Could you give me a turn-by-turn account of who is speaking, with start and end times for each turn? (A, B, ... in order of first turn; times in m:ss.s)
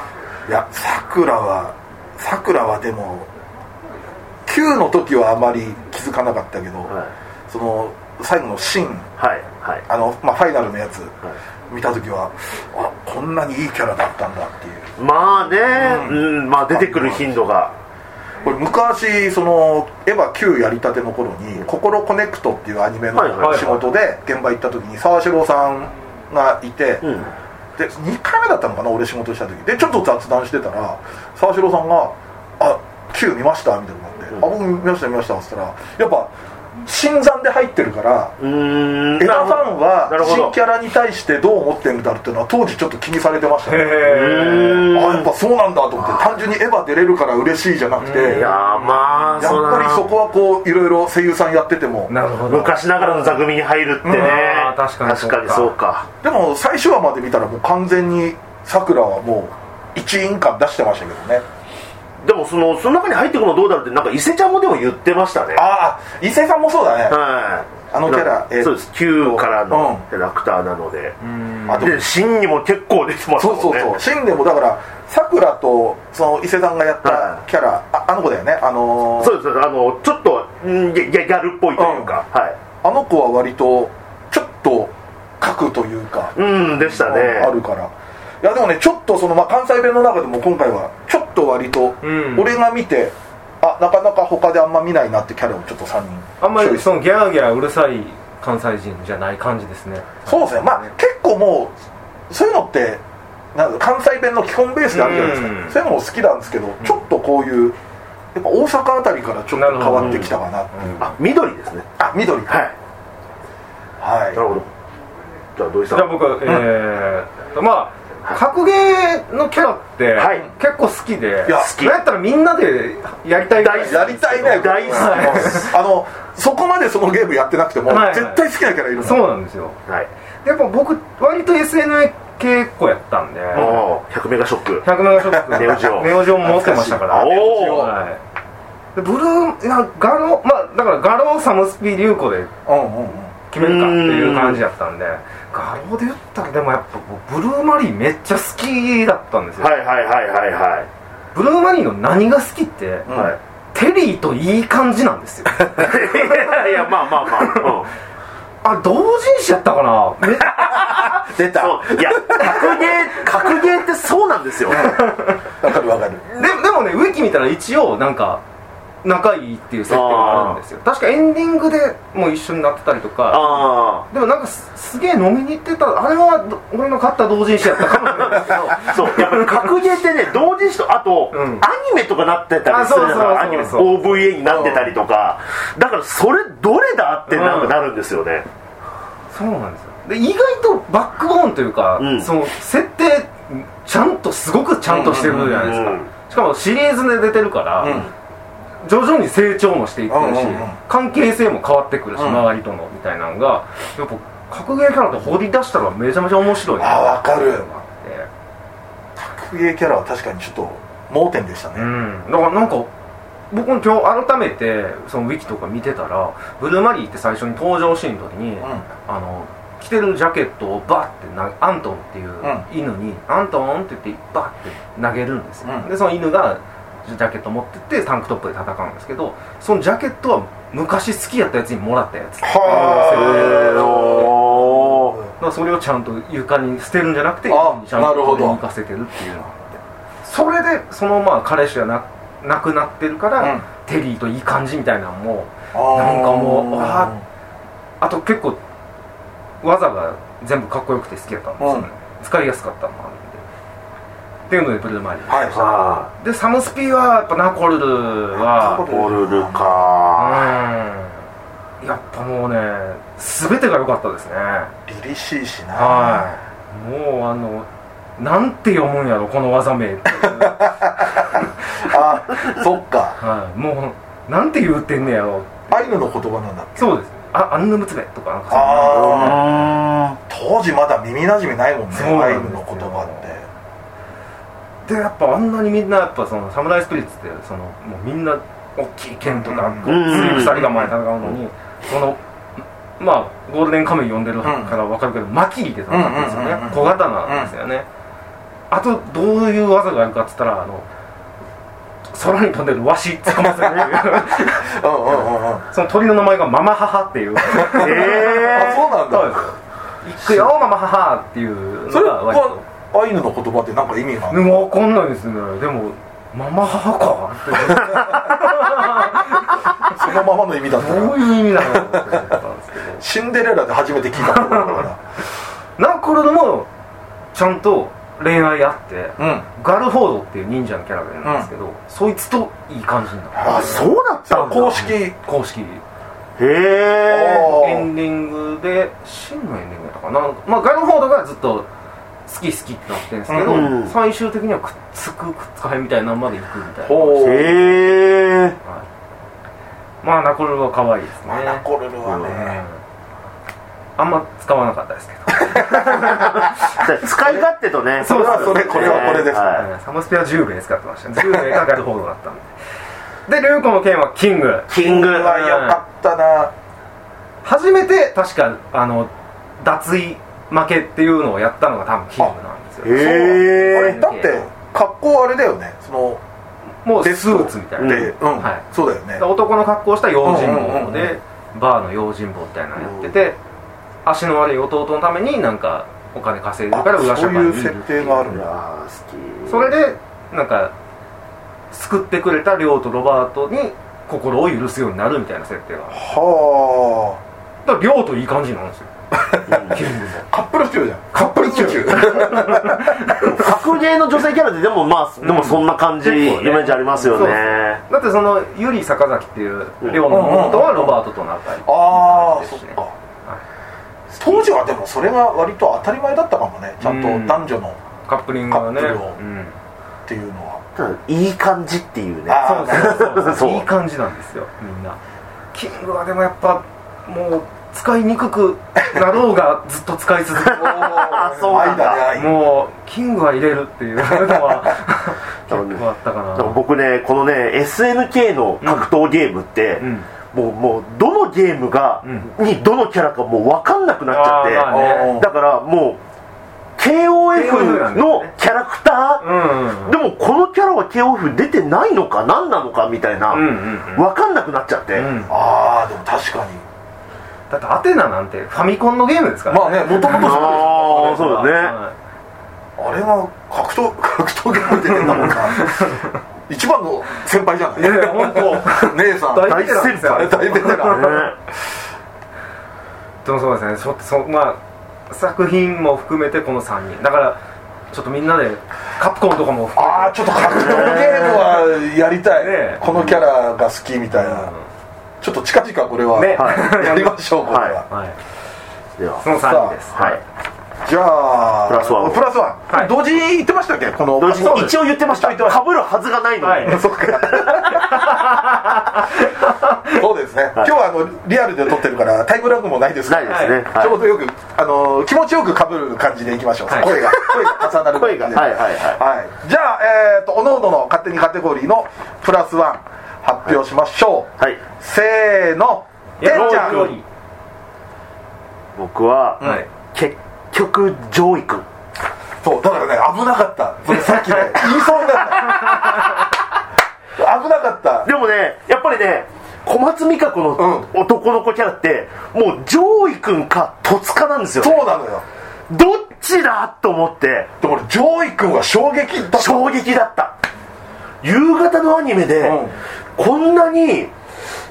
0:00.4-0:03.3 A
0:04.4-0:06.9 A
0:07.5-0:09.1 A
0:09.2-0:09.8 B
0:09.9-0:11.2 A
0:11.7-0:14.9 A
0:15.0-0:17.7 B
0:15.7-0:17.4 A
0:18.4-0:27.1 A
0:23.1-0:23.8 B
0:23.4-0:23.7 C
0:27.0-0:27.3 B
0:27.8-0:38.4 A
0:38.4-0:40.5 B
0:39.2-0:44.0 A
0:43.6-0:44.9 C
0:44.0-0:45.3 B
0:44.9-0:48.5 A
0:48.0-0:49.5 C
0:48.2-0:50.1 B
0:49.4-0:52.1 A
0:52.1-0:53.1 C
0:52.5-0:56.1 B
0:54.0-0:54.4 A
0:54.1-0:55.7 C
0:56.2-1:01.4 A
1:02.2-1:05.6 B
1:05.5-1:07.2 A
1:07.1-1:11.2 B
1:07.9-1:10.0 A
1:11.2-1:11.9 C
1:11.7-1:12.1 A
1:11.7-1:14.0 B
1:13.4-1:19.4 A
1:17.0-1:17.4 B
1:19.2-1:22.6 B
1:21.8-1:22.2 A
1:22.8-1:26.3 A
1:26.4-1:27.5 B
1:26.8-1:37.0 A
1:32.0-1:32.5 C
1:36.4-1:40.9 C
1:40.2-1:41.7 A
1:42.3-1:43.0 A
1:43.5-1:47.8 A
1:44.9-1:45.8 C
1:48.3-1:51.0 A
1:49.5-1:51.2 C
1:50.0-1:50.3 B
1:51.0-1:51.9 B
1:52.0-1:52.6 A
1:52.5-1:52.7 B
1:54.0-1:54.4 A
1:54.3-1:54.7 B
1:55.6-1:56.1 B
1:55.9-2:05.7 C
2:00.2-2:00.4 B
2:01.4-2:01.7 A
2:01.5-2:02.0 B
2:03.6-2:05.6 B
2:03.7-2:09.2 A
2:07.9-2:08.4 C
2:09.0-2:09.8 C
2:10.4-2:13.8 C
2:13.5-2:13.8 A
2:13.5-2:14.8 B
2:14.8-2:18.2 C
2:15.3-2:17.9 A
2:15.5-2:16.2 B
2:17.1-2:17.9 B
2:19.0-2:22.5 C
2:22.6-2:23.3 A
2:23.5-2:29.7 C
2:23.6-2:24.6 B
2:29.6-2:30.9 B
2:31.3-2:33.1 C
2:33.1-2:33.4 A
2:33.1-2:33.4 B
2:33.7-2:36.7 C
2:35.7-2:37.9 B
2:38.6-2:41.1 C
2:40.6-2:43.5 A
2:40.7-2:44.9 B
2:44.7-2:46.2 A
2:44.8-2:45.4 C
2:46.4-2:48.4 C
2:49.0-2:59.7 C
2:49.9-2:50.6 B
2:53.3-2:54.0 B
2:58.1-3:08.4 B
3:01.3-3:01.6 C
3:02.7-3:04.3 C
3:04.4-3:04.9 A
3:07.3-3:07.7 C
3:09.3-3:18.0 C
3:12.0-3:12.3 B
3:14.8-3:15.6 A
3:15.2-3:16.1 B
3:17.8-3:18.1 A
3:18.8-3:28.3 C
3:20.1-3:20.8 A
3:22.2-3:22.4 A
3:26.8-3:27.6 A
3:29.2-3:31.9 A
3:31.8-3:32.9 C
3:33.5-3:54.3 C
3:45.6-3:45.9 A
3:52.4-3:55.3 A
3:52.7-3:55.2 B
3:55.4-4:07.1 C
3:57.5-3:58.6 A
4:03.4-4:03.6 A
4:05.7-4:07.2 A
4:08.0-4:08.6 C
4:09.6-4:13.4 C
4:11.6-4:11.9 A
4:14.5-4:15.6 C
4:15.3-4:15.6 A
4:15.5-4:16.1 B
4:16.2-4:18.8 C
4:18.3-4:19.8 A
4:18.8-4:20.5 B
4:20.2-4:21.2 C
4:21.8-4:24.7 C
4:24.8-4:26.3 A
4:25.7-4:31.4 C
4:30.2-4:33.2 A
4:33.2-4:35.7 C
4:35.7-4:36.8 A
4:36.8-4:39.6 C
4:38.5-4:39.4 A
4:38.9-4:40.2 B
4:40.3-4:43.5 A
4:41.9-4:43.3 C
4:44.8-4:52.2 C
4:49.3-4:50.9 A
4:49.8-4:50.7 B
4:53.0-4:57.8 C
4:54.4-4:54.8 A
4:55.9-4:57.5 A
4:58.7-5:00.8 C
5:02.1-5:04.8 C
5:03.3-5:05.6 A
5:05.7-5:12.6 C
5:07.4-5:09.4 A
5:07.8-5:08.8 B
5:10.2-5:10.5 A
5:11.9-5:14.5 A
5:14.3-5:20.0 C
5:17.6-5:19.1 A
5:19.8-5:22.3 A
5:20.8-5:23.0 C
5:23.0-5:25.0 A
5:24.3-5:24.8 C
5:25.8-5:26.7 C
5:27.3-5:35.8 C
5:29.2-5:29.5 A
5:31.2-5:31.5 A
5:33.3-5:35.1 A
5:33.4-5:34.9 B
5:36.4-5:37.5 B
5:37.1-5:37.9 A
5:37.4-5:41.7 C
5:42.3-5:47.6 C
5:43.3-5:43.7 A
5:43.4-5:43.9 B
5:46.8-5:47.6 A
5:47.2-5:48.6 B
5:50.0-5:51.6 C
5:51.3-5:52.6 A
5:52.0-5:52.5 B
5:52.2-5:52.8 C
5:54.0-5:56.8 C
5:55.4-5:56.5 A
5:56.0-5:59.6 B
5:58.0-5:59.6 A
5:58.0-6:02.5 C
6:01.2-6:01.5 A
6:03.3-6:05.8 C
6:04.7-6:05.4 B
6:04.8-6:06.5 A
6:07.4-6:14.5 C
6:12.8-6:14.0 B
6:12.9-6:16.2 A
6:16.8-6:18.6 C
6:17.0-6:19.2 A
6:17.8-6:18.1 B
6:19.2-6:23.4 C
6:20.2-6:21.1 A
6:22.8-6:23.1 B
6:24.0-6:28.3 C
6:26.7-6:28.5 A
6:28.3-6:29.7 B
6:29.5-6:30.7 C
6:31.7-6:36.0 C
6:35.9-6:37.2 A
6:37.6-6:38.9 C
6:39.1-6:43.7 A
6:39.5-6:40.2 C
6:39.5-6:39.8 B
6:41.1-6:43.4 C
6:43.2-6:47.8 B
6:45.2-6:53.4 C
6:50.0-6:51.0 A
6:51.6-6:52.9 A
6:54.2-6:57.8 A
6:56.8-6:57.5 C
6:58.0-6:59.6 C
6:58.5-6:59.2 A
7:00.0-7:00.6 A
7:00.8-7:03.7 B
7:02.3-7:03.3 A
7:02.4-7:05.0 C
7:05.5-7:11.4 C
7:10.4-7:12.0 B
7:10.5-7:12.4 A
7:12.0-7:16.6 C
7:14.0-7:14.6 A
7:15.5-7:15.8 B
7:16.3-7:26.0 B
7:18.6-7:18.9 C
7:19.8-7:20.1 C
7:22.0-7:22.3 C
7:24.1-7:25.2 C
7:24.7-7:25.3 A
7:26.8-7:35.1 B
7:27.3-7:28.3 C
7:29.2-7:30.0 C
7:33.3-7:34.1 C
7:34.9-7:35.3 C
7:35.3-7:36.6 A
7:37.5-7:41.9 C
7:39.5-7:41.2 A
7:40.1-7:41.8 B
7:42.8-7:45.8 A
7:45.1-7:46.1 C
7:46.5-7:51.3 A
7:47.8-7:51.2 C
7:49.4-7:51.3 B
7:53.2-7:57.4 C
7:57.9-8:01.3 C
7:59.7-8:04.5 A
8:00.6-8:01.4 B
8:02.3-8:02.8 C
8:02.8-8:03.2 B
8:04.1-8:04.7 C
8:05.2-8:07.8 A
8:06.1-8:07.2 C
8:06.4-8:06.6 B
8:07.5-8:07.8 B
8:07.9-8:08.2 C
8:09.0-8:09.2 B
8:09.2-8:10.2 C
8:09.3-8:09.8 A
8:09.9-8:10.2 B
8:10.8-8:15.6 A
8:11.7-8:12.2 B
8:14.2-8:17.7 B
8:14.3-8:14.8 C
8:16.4-8:16.8 C
8:16.6-8:18.2 A
8:17.6-8:20.0 C
8:19.8-8:36.9 A
8:23.1-8:24.0 B
8:23.3-8:23.6 C
8:26.7-8:26.9 C
8:26.8-8:29.0 B
8:36.2-8:37.0 C
8:36.3-8:36.9 B
8:38.8-8:41.6 B
8:42.4-8:46.3 A
8:43.9-8:44.6 C
8:45.4-8:46.2 C
8:47.2-8:48.1 A
8:48.0-8:54.8 B
8:50.6-8:50.9 A
8:54.6-8:55.2 A
8:55.7-8:57.5 B
8:57.6-8:59.8 A
8:59.3-9:00.3 B
9:01.2-9:02.6 B
9:02.4-9:02.7 A
9:03.2-9:04.1 B